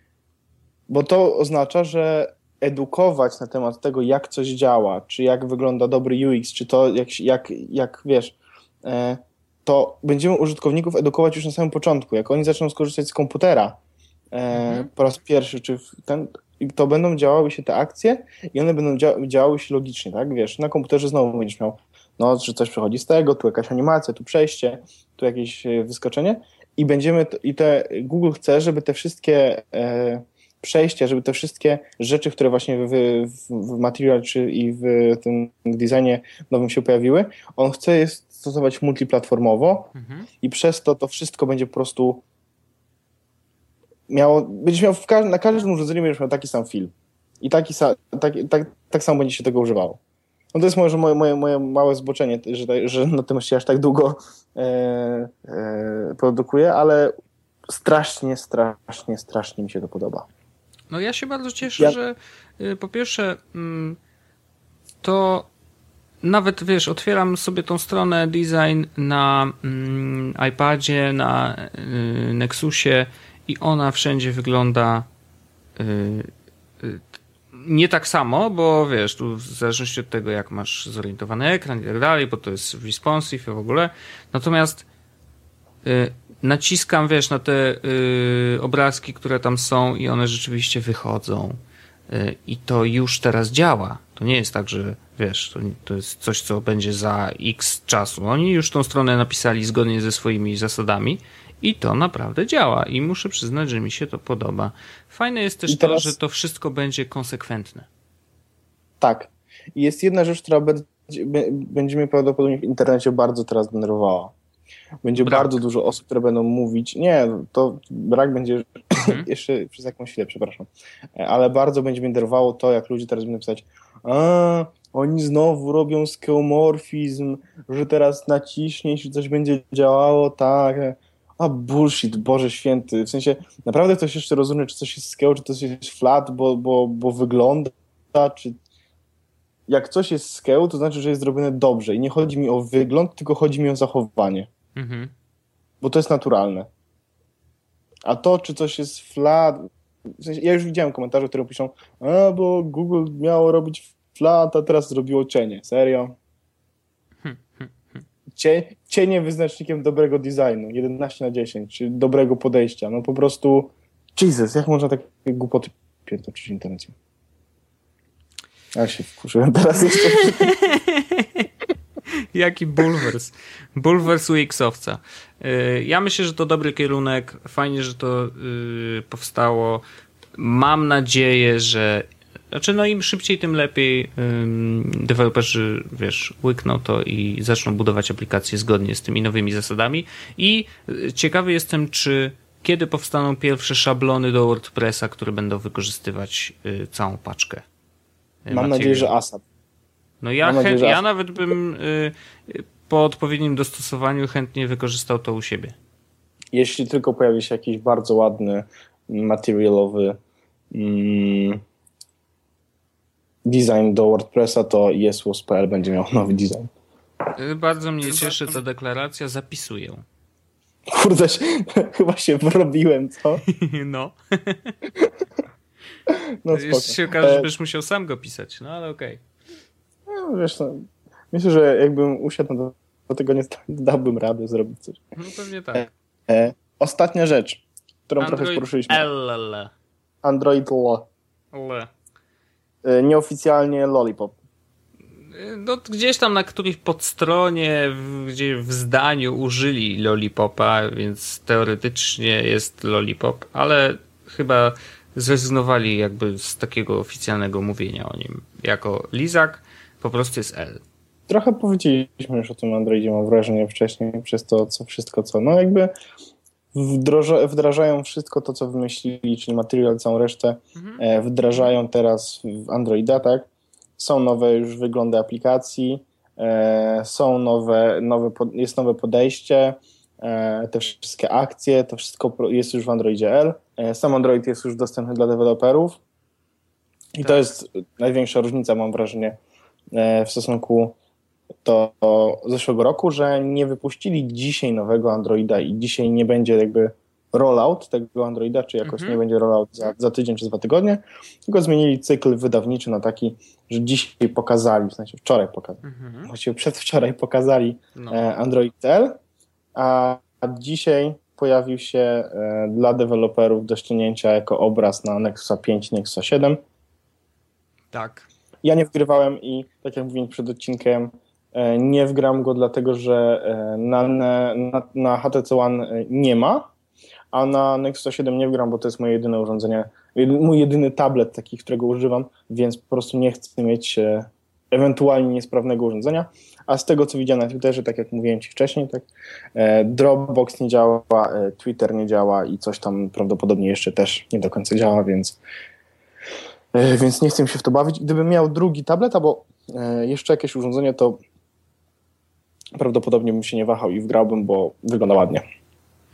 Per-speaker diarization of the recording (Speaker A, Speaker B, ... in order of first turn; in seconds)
Speaker A: 0.9-13.8, 14.3-39.9, 40.4-42.2, 44.1-50.0, 50.5-57.1, 57.7-60.3, 105.7-106.1, 109.0-114.3, 115.0-138.6, 139.7-144.5, 145.8-146.7, 148.1-149.7, 150.2-156.2, 158.3-166.9, 168.7-170.5, 198.5-199.4, 200.4-201.0, 206.5-210.2, 210.7-211.6, 213.4-216.7, 220.9-223.4, 226.1-227.5, 230.1-235.0, 235.7-239.1, 240.2-241.1, 242.8-244.3, 261.3-265.9, 266.7-273.5, 274.0-286.0, 287.2-289.4, 289.9-290.9, 291.6-309.2, 309.8-316.6, 318.6-326.7, 327.3-345.4, 346.7-351.2, 352.8-355.4
Speaker B: 14.5-14.9, 39.9-40.3, 60.9-64.0, 65.0-65.5, 66.2-75.1, 75.8-76.3, 76.8-84.9, 85.8-91.6, 92.1-107.9, 115.2-115.6, 119.0-119.3, 144.7-145.1, 157.2-158.0, 170.0-171.5, 172.1-179.8, 180.3-197.6, 198.4-199.1, 200.2-205.7, 217.3-220.0, 223.4-224.7, 226.5-229.2, 235.2-235.9, 238.2-239.7, 241.5-241.9, 245.3-260.8, 270.7-271.0, 298.8-299.2, 305.8-306.3, 307.9-308.2, 317.9-318.3